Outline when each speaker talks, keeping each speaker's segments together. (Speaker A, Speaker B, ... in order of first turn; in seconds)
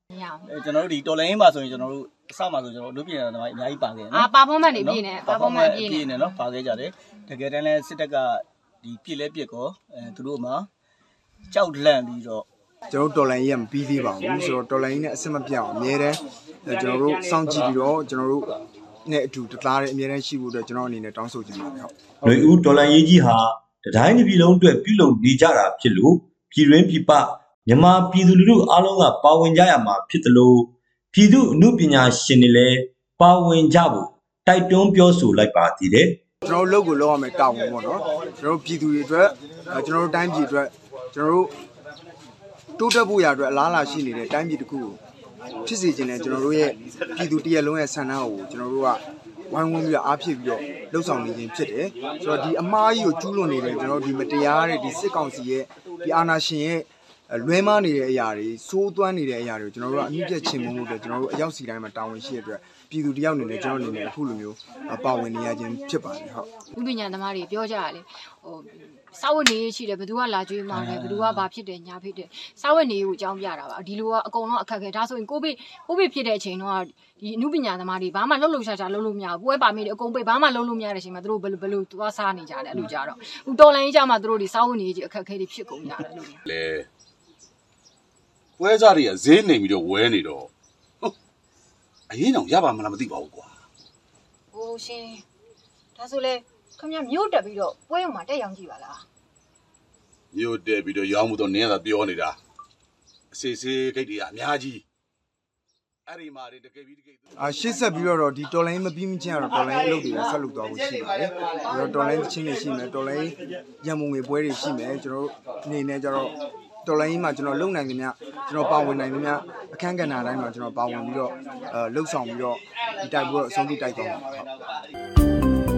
Speaker A: 0.1-0.5, 4.1-6.4, 66.7-86.4, 94.5-95.2, 96.0-99.0
Speaker B: 0.5-10.7, 11.5-12.5, 70.7-71.5
Speaker C: 12.9-18.5, 19.1-21.9, 36.5-41.5, 42.8-45.0, 45.7-66.5, 107.4-124.5
Speaker D: 22.2-36.2
Speaker E: 86.5-86.9, 88.6-90.5, 92.1-93.5, 100.3-102.4, 103.3-104.8, 106.1-107.2